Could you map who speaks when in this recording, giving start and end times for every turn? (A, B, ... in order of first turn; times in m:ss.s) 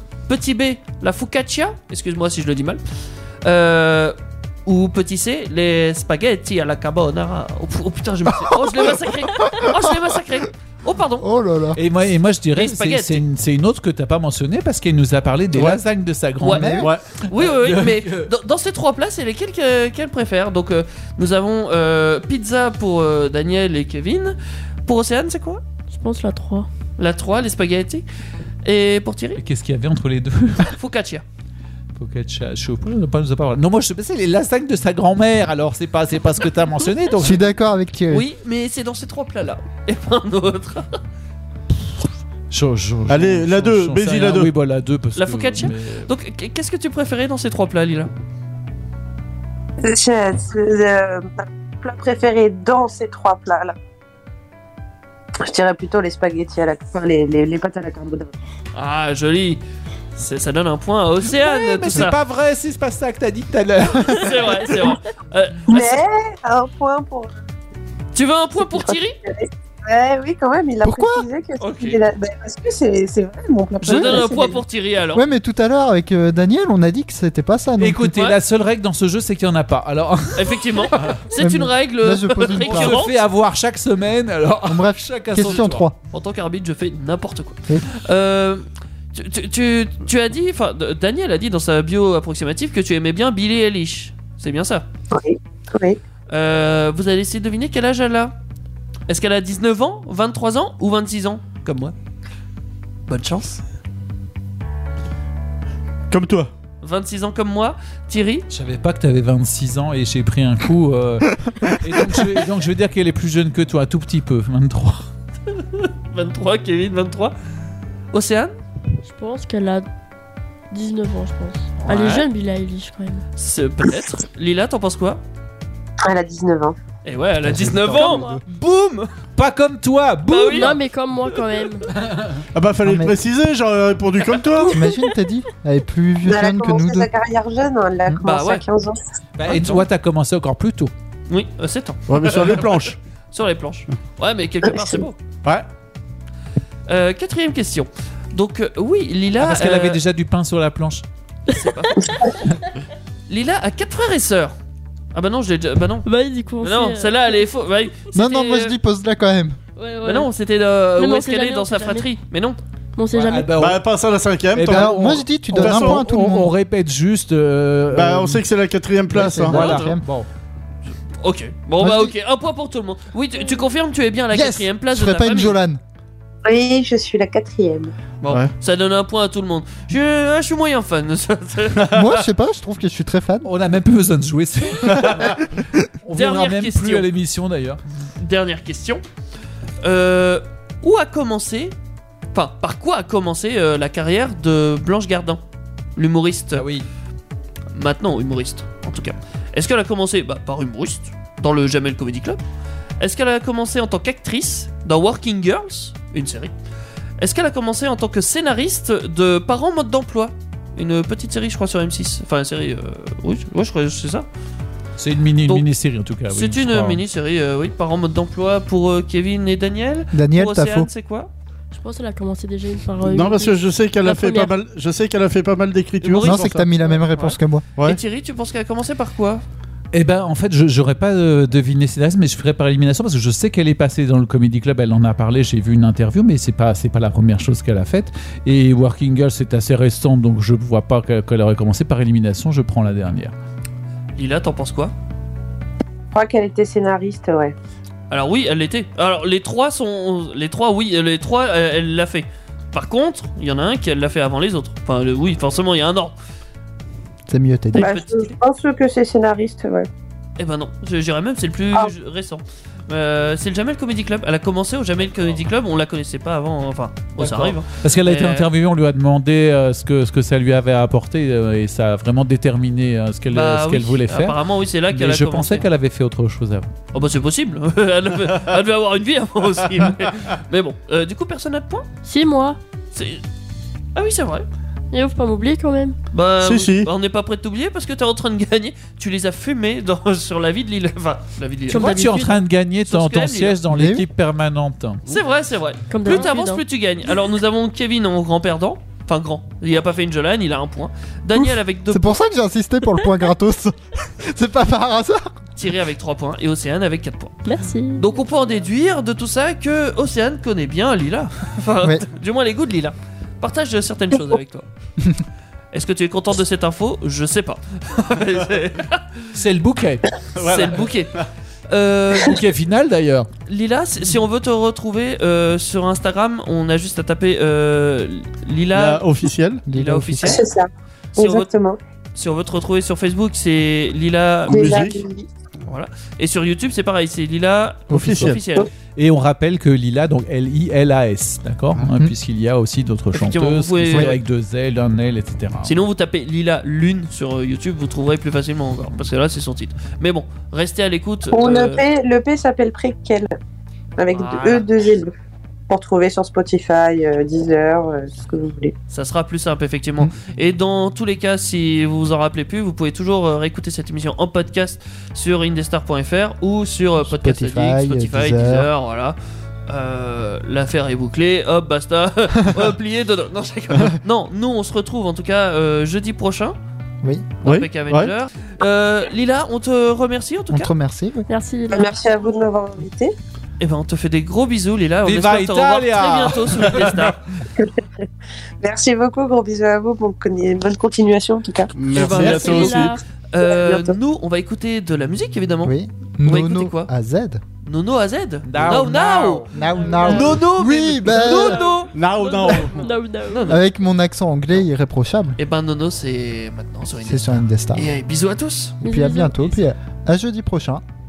0:00.3-0:02.8 A
0:03.4-0:11.3 A
0:11.2-0:11.8 B
0:11.8-0:18.3 C
0:12.5-0:13.2 A
0:15.5-0:15.8 D
0:16.4-0:25.6 A
0:16.5-0:16.9 B
0:25.9-0:26.7 E
0:27.0-0:28.0 A
0:28.6-0:29.4 A
0:29.4-0:30.7 C
0:30.6-0:31.2 A
0:32.0-0:37.5 C
0:37.2-0:38.3 B
0:38.1-0:41.0 A
0:42.5-0:46.1 C
0:43.1-0:44.5 D
0:45.1-0:48.1 A
0:49.8-0:53.8 F
0:55.4-0:58.3 F
0:58.7-0:59.6 A
1:00.1-1:02.2 A
1:01.3-1:04.7 C
1:04.1-1:06.0 A
1:05.7-1:07.3 F
1:08.1-1:09.2 A
1:08.6-1:14.6 F
1:10.8-1:11.2 B
1:11.6-1:12.0 A
1:13.8-1:15.2 A
1:15.1-1:18.1 B
1:17.8-1:21.3 C
1:18.0-1:18.4 A
1:20.3-1:23.2 A
1:21.4-1:23.0 B
1:22.6-1:25.9 C
1:24.6-1:25.9 B
1:25.4-1:34.8 A
1:35.1-1:36.0 F
1:36.3-1:38.3 A
1:39.1-1:41.9 A
1:43.1-1:43.6 A
1:46.1-1:46.5 D
1:46.8-1:48.5 A
1:48.5-1:55.1 C
1:55.5-1:57.4 A
1:58.1-1:58.5 A
1:59.0-1:59.8 E
2:00.7-2:03.3 E
2:01.8-2:02.3 A
2:03.4-2:05.2 A
2:06.0-2:06.8 F
2:07.0-2:09.1 A
2:07.4-2:08.4 B
2:07.8-2:08.4 E
2:09.3-2:10.8 C
2:10.2-2:10.8 A
2:10.5-2:11.9 E
2:11.9-2:12.4 C
2:12.5-2:14.8 D
2:12.8-2:13.2 B
2:14.6-2:17.1 B
2:16.2-2:19.0 F
2:18.2-2:18.6 A
2:19.4-2:20.9 C
2:19.5-2:19.9 A
2:21.3-2:25.2 A
2:22.1-2:23.0 D
2:24.7-2:25.0 F
2:26.9-2:30.0 A
2:29.4-2:31.0 C
2:31.5-2:32.3 A
2:33.3-2:34.6 A
2:35.1-2:36.1 A
2:36.0-2:37.5 E
2:36.6-2:38.8 A
2:38.1-2:39.6 B
2:39.8-2:40.3 E
2:40.0-2:42.6 A
2:41.0-2:42.2 E
2:42.9-2:43.6 E
2:43.1-2:43.8 C
2:43.6-2:45.0 D
2:44.5-2:48.4 C
2:44.7-2:46.5 B
2:45.5-2:46.1 D
2:47.9-2:49.6 D
2:49.1-2:50.3 C
2:49.4-2:50.0 B
2:49.6-2:50.0 A
2:51.2-2:55.6 A
2:51.8-2:52.1 B
2:54.3-2:55.8 B
2:56.4-2:57.9 F
2:58.2-3:02.2 A
3:01.9-3:03.5 B
3:03.4-3:05.4 C
3:06.0-3:07.8 C
3:06.2-3:07.1 A
3:08.2-3:09.0 A
3:09.8-3:11.8 A
3:12.3-3:15.4 A
3:16.0-3:16.7 A
3:16.5-3:16.9 C
3:17.7-3:22.4 A
3:23.0-3:26.5 A
3:27.2-3:34.3 A
3:35.0-3:37.0 C
3:36.3-3:41.3 A
3:40.1-3:40.9 B
3:41.7-3:44.5 E
3:43.0-3:46.7 D
3:46.0-3:49.4 A
3:46.2-3:47.6 B
3:49.9-4:03.3 C
4:04.2-4:04.9 A
4:06.1-4:07.5 F
4:08.1-4:16.2 A
4:17.3-4:17.9 B
4:17.7-4:18.4 A
4:17.7-4:19.9 F
4:20.4-4:28.5 A
4:27.2-4:34.4 C
4:33.3-4:35.7 A
4:34.9-4:36.7 C
4:36.9-4:41.9 A
4:42.0-4:42.6 E
4:42.9-4:43.2 A
4:43.9-4:44.5 A
4:44.9-4:46.0 E
4:46.1-4:52.0 A
4:46.4-4:46.9 D
4:51.7-4:52.4 E
4:51.7-4:55.2 C
4:52.8-4:53.6 A
4:53.7-4:54.0 B
4:55.1-5:02.2 A
4:55.9-4:56.6 E
5:01.9-5:05.3 B
5:05.6-5:14.7 A
5:07.4-5:08.0 E
5:15.7-5:19.3 A
5:19.3-5:20.2 C
5:20.4-5:21.2 D
5:20.4-5:21.1 A
5:21.7-5:22.4 A
5:22.2-5:23.3 C
5:23.5-5:29.0 A
5:28.7-5:29.6 D
5:29.6-5:30.4 B
5:29.7-5:30.4 A
5:30.2-5:31.8 F
5:31.1-5:31.5 A
5:32.1-5:34.9 A
5:34.5-5:35.3 F
5:34.5-5:35.0 D
5:35.7-5:38.7 A
5:37.9-5:38.4 D
5:39.0-5:45.7 C
5:43.1-5:44.2 A
5:45.6-5:51.8 A
5:51.3-5:53.3 F
5:54.0-5:55.1 F
5:54.1-5:54.7 A
5:55.7-5:58.7 F
5:58.9-6:09.2 A
6:07.0-6:08.7 B
6:09.7-6:16.6 A
6:17.4-6:18.1 D
6:17.4-6:20.7 A
6:20.5-6:21.3 B
6:21.3-6:21.9 E
6:21.7-6:23.1 F
6:23.6-6:27.2 A
6:25.0-6:27.1 C
6:27.5-6:28.0 F
6:28.6-6:31.7 F
6:31.7-6:33.0 D
6:31.9-6:36.9 A
6:32.0-6:33.0 E
6:33.4-6:34.0 F
6:35.6-6:37.4 B
6:37.6-6:43.6 A
6:38.4-6:39.5 C
6:39.5-6:41.6 B
6:41.9-6:42.9 D
6:42.2-6:43.6 E
6:43.5-6:45.4 B
6:45.4-6:48.8 A
6:47.0-6:47.9 B
6:48.8-6:49.4 E
6:48.8-6:50.8 B